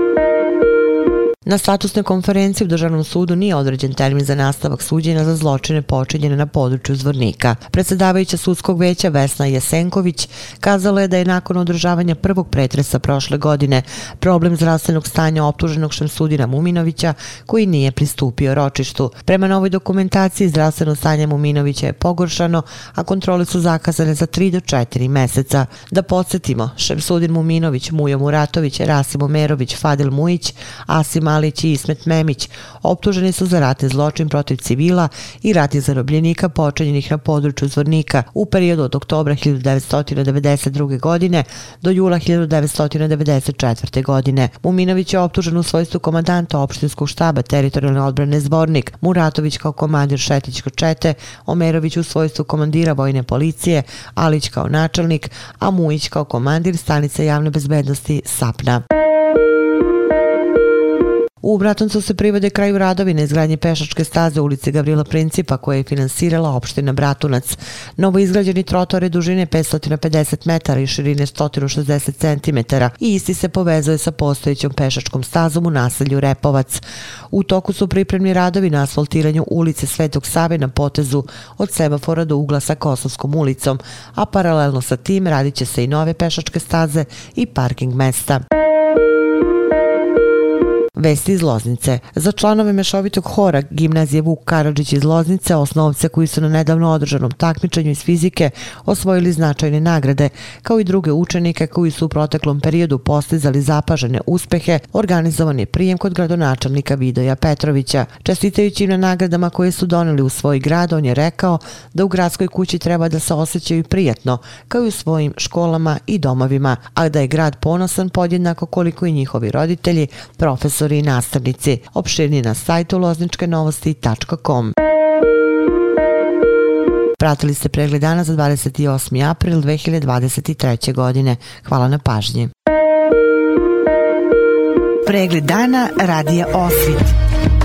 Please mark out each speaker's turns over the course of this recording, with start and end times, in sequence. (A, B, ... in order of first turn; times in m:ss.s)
0:01.4-0:58.8 A
1:01.4-1:28.4 A
1:31.0-2:04.7 A
2:07.2-2:12.5 A
2:15.0-2:17.1 A